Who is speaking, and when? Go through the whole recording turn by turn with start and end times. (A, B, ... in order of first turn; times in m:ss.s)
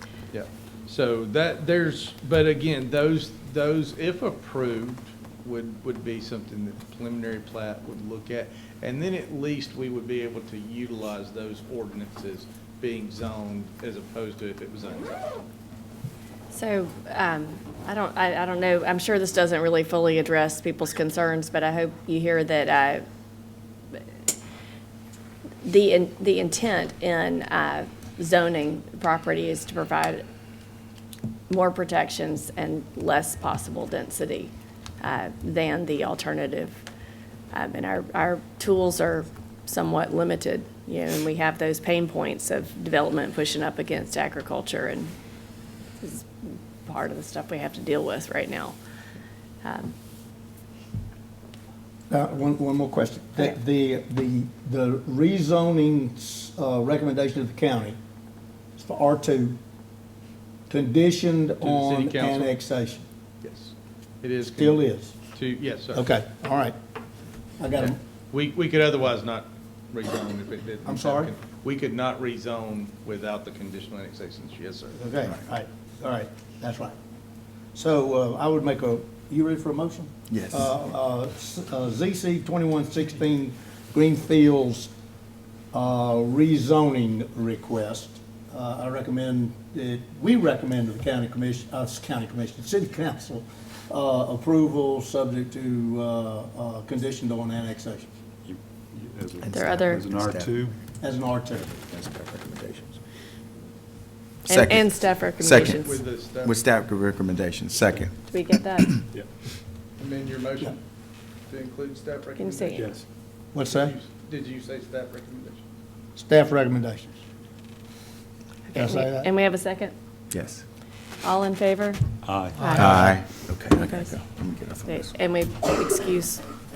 0:00.3-0:15.4 A
0:16.5-0:23.0 B
0:25.6-0:30.2 B
0:31.5-0:36.8 B
0:37.5-0:45.1 B
0:46.0-0:48.8 B
0:49.6-0:49.9 B
0:52.1-0:58.0 C
0:58.8-0:59.6 C
1:00.7-1:03.0 C
1:01.6-1:02.6 A
1:03.4-1:04.8 A
1:04.4-1:05.2 C
1:05.3-1:06.1 A
1:05.9-1:06.8 C
1:07.6-1:08.0 C
1:07.8-1:15.0 A
1:10.8-1:11.3 C
1:14.9-1:17.0 C
1:17.7-1:24.9 C
1:20.3-1:20.7 D
1:25.7-1:38.1 C
1:38.4-1:40.8 E
1:39.4-1:40.5 D
1:39.5-1:40.1 B
1:41.0-1:41.7 C
1:41.7-1:43.0 D
1:44.4-1:46.0 B
1:44.5-1:48.1 D
1:45.5-1:46.6 A
1:48.3-1:49.0 B
1:50.0-1:50.8 A
1:51.5-1:53.0 A
1:52.4-1:52.9 B
1:52.7-1:53.0 E
1:53.5-1:53.9 C
1:53.6-1:55.6 A
1:56.2-1:57.1 C
1:58.7-1:59.9 B
1:58.7-1:59.3 C
2:00.3-2:00.6 D
2:01.2-2:02.0 B
2:02.2-2:03.2 E
2:02.6-2:03.0 B
2:02.7-2:05.1 D
2:03.7-2:04.2 B
2:04.8-2:06.4 B